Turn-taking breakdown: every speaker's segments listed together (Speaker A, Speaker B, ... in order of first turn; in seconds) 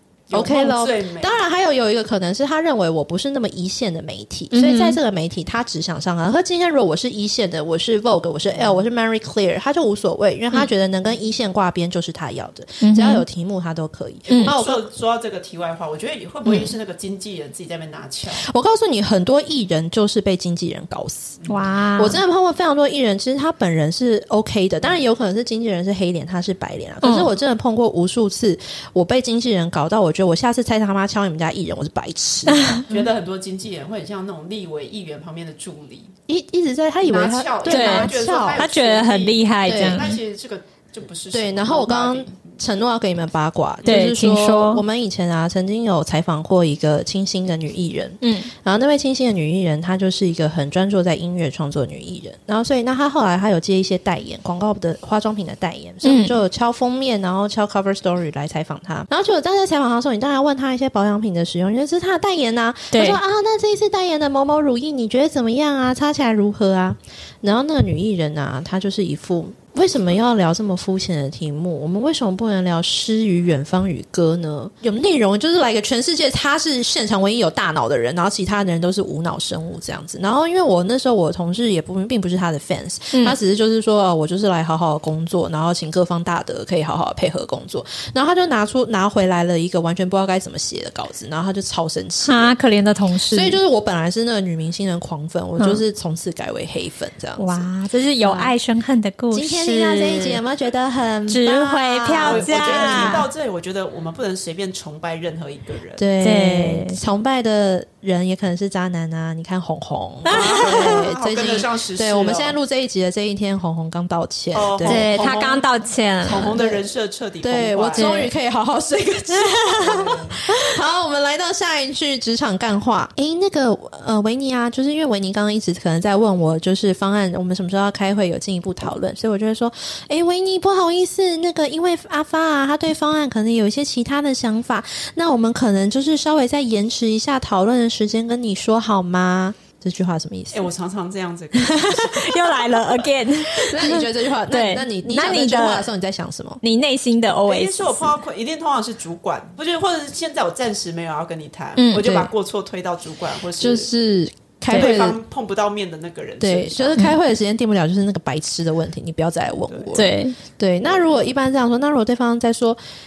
Speaker A: 0.3-1.4, 14.3-18.4, 32.9-36.1, 37.0-42.5, 102.2-106.0, 110.3-112.5, 114.5-115.7, 116.2-118.2, 119.8-120.4, 140.5-143.1, 147.4-153.9, 154.7-157.1, 159.7-160.0
Speaker B: 0.3-14.8, 18.4-21.4, 21.9-33.0, 36.3-38.6, 39.6-40.1, 41.3-92.5, 93.3-97.7, 98.2-98.5, 99.3-103.3, 106.0-115.3, 116.3-116.8, 117.4-140.7, 143.5-146.6, 153.6-155.2, 156.4-162.8
Speaker C: 4.5-5.0, 12.8-13.2, 14.3-14.5, 21.5-22.2, 27.0-27.3, 32.5-32.8, 37.7-40.2, 43.8-44.8, 48.2-48.5, 56.0-56.3, 62.9-63.2, 92.2-93.6, 97.4-100.4, 101.3-103.2, 106.2-107.0, 110.2-111.1, 114.8-116.5, 117.9-118.3, 119.3-120.6, 141.5-145.9, 146.6-148.2, 151.8-152.3, 159.9-160.3